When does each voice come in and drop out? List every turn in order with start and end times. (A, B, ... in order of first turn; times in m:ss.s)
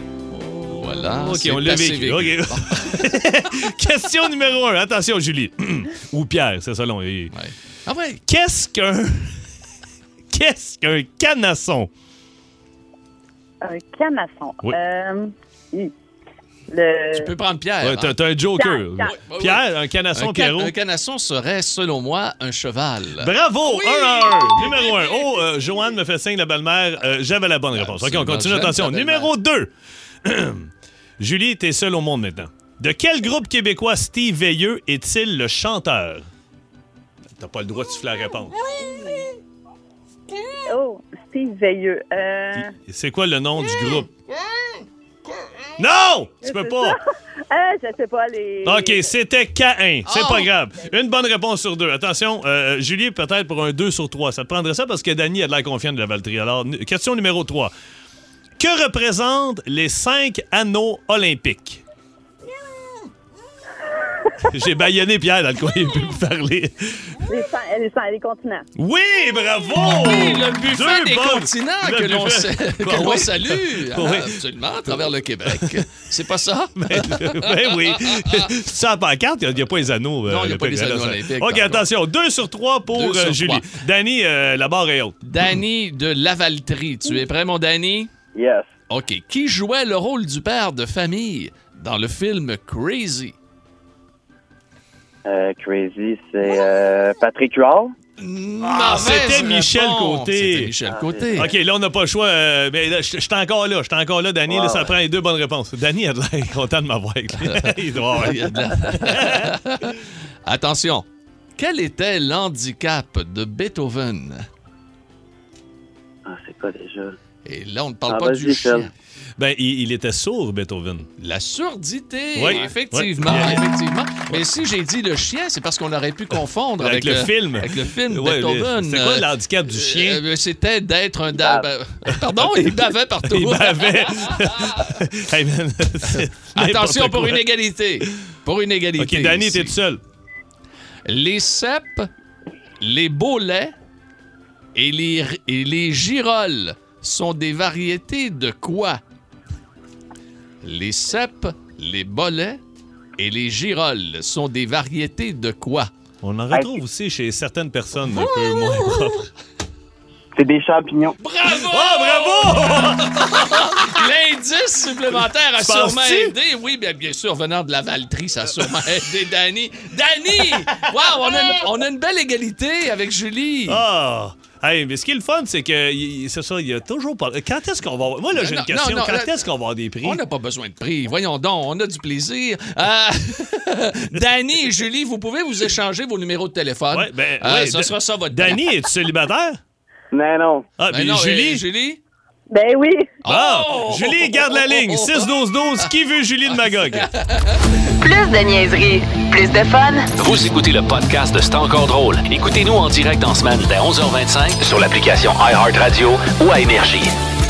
0:00.4-0:07.3 A
0:00.6-0:03.1 B
0:07.3-0:08.2 B
0:08.3-0:09.4 A
0:10.3-0:11.9 A
0:13.6-0:15.9 C
0:16.7-0:17.3 C
0:17.1-0:18.1 B
0:17.8-0:20.7 A
0:18.6-0:19.1 C
0:19.0-0:25.6 B
0:23.2-0:29.7 A
0:27.7-0:29.3 B
0:30.2-0:36.3 A
0:37.4-0:38.6 A
0:38.8-0:39.2 C
0:40.6-0:42.7 C
0:42.6-0:44.1 A
0:45.8-0:47.0 A
0:46.4-0:47.0 C
0:47.5-0:49.1 C
0:48.6-0:57.7 A
0:50.1-0:50.5 B
0:58.6-1:01.8 A
1:04.5-1:07.2 A
1:07.3-1:08.6 C
1:08.8-1:15.8 A
1:09.8-1:18.5 B
1:16.8-1:25.2 A
1:20.3-1:21.9 B
1:22.9-1:23.6 B
1:25.2-1:28.1 B
1:28.4-1:28.7 D
1:28.9-1:33.4 B
1:35.2-1:37.9 D
1:38.2-1:41.5 B
1:38.6-1:40.7 A
1:40.9-1:41.6 D
1:41.3-1:49.6 A
1:44.5-1:44.9 D
1:47.5-1:54.4 B
1:56.3-1:57.2 D
1:57.4-1:58.9 B
1:58.1-1:58.9 D
1:59.4-2:01.1 A
2:01.2-2:14.9 B
2:02.4-2:03.6 A
2:06.8-2:10.2 A
2:11.3-2:11.7 D
2:12.4-2:12.7 A
2:13.2-2:17.4 A
2:16.1-2:19.7 B
2:19.0-2:20.0 A
2:21.1-2:22.1 B
2:22.8-2:23.7 B
2:24.7-2:29.0 B
2:30.6-2:32.6 B
2:33.2-2:35.9 B
2:36.2-2:39.3 A
2:38.4-2:38.9 B
2:40.4-2:41.2 D
2:41.2-2:53.8 B
2:41.4-2:43.8 A
2:45.5-2:46.4 A
2:50.6-2:51.6 A
2:53.7-3:00.2 A
2:58.3-2:59.4 B
3:00.0-3:08.7 B
3:06.9-3:09.6 A
3:10.1-3:10.7 D
3:10.8-3:11.6 A
3:10.9-3:12.0 B
3:12.5-3:13.1 C
3:13.2-3:15.3 B
3:13.3-3:17.1 A
3:16.5-3:17.7 B
3:18.0-3:20.1 E
3:20.2-3:27.2 F